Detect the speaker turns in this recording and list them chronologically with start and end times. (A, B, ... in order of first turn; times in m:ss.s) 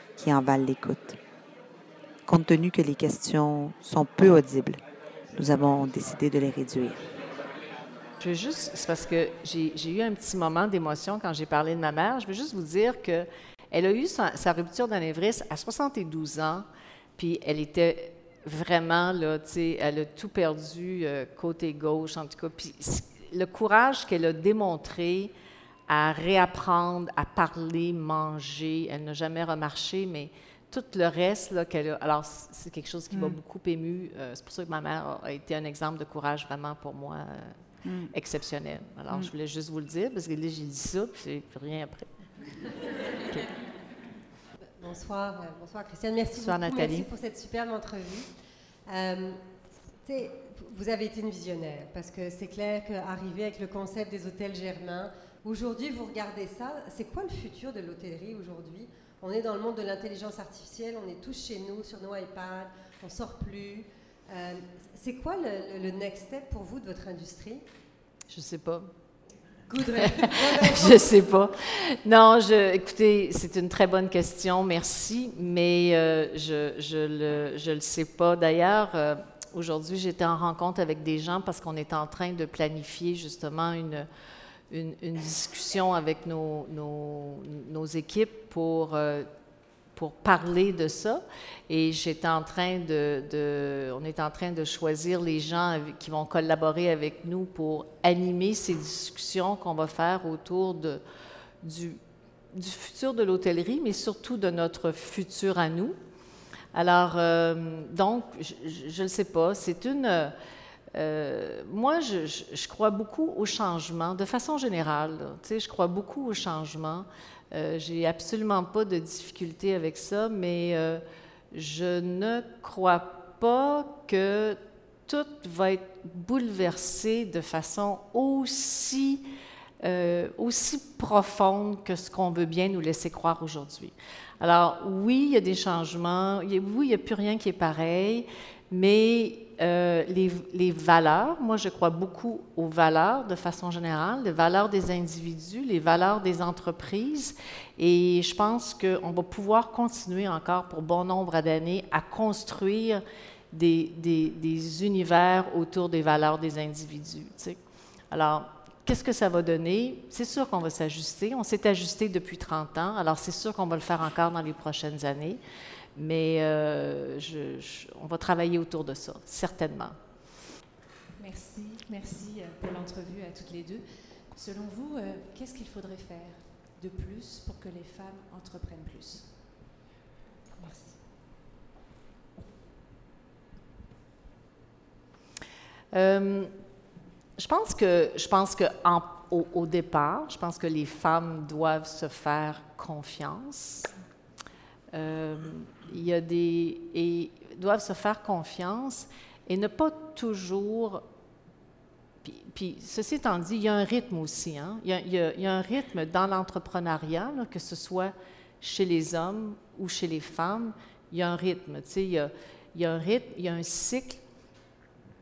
0:00.2-0:01.2 A
0:02.2-0:04.8 A
0:05.4-0:07.0 A
0:08.2-0:16.6 B
0:17.2-0:25.3 B
0:25.9-0:37.6 B
0:33.1-0:33.4 A
0:37.8-0:38.1 A
0:38.1-0:42.2 B
0:44.8-0:49.4 C
0:46.4-0:47.1 B
0:50.0-1:07.6 C
1:08.3-1:08.9 B
1:09.7-1:11.1 C
1:09.9-1:24.1 B
1:24.7-1:29.3 B
1:30.0-1:41.0 B
1:41.6-1:42.0 B
1:42.5-1:46.0 B
1:46.7-1:50.3 B
1:50.9-2:09.2 B
2:09.8-2:37.6 B
2:38.1-2:45.4 B
2:46.0-2:50.0 B
2:51.2-2:59.4 D
3:00.6-3:01.0 D
3:05.9-3:06.5 B
3:07.4-3:13.9 B
3:14.9-3:21.0 B
3:22.2-3:34.2 B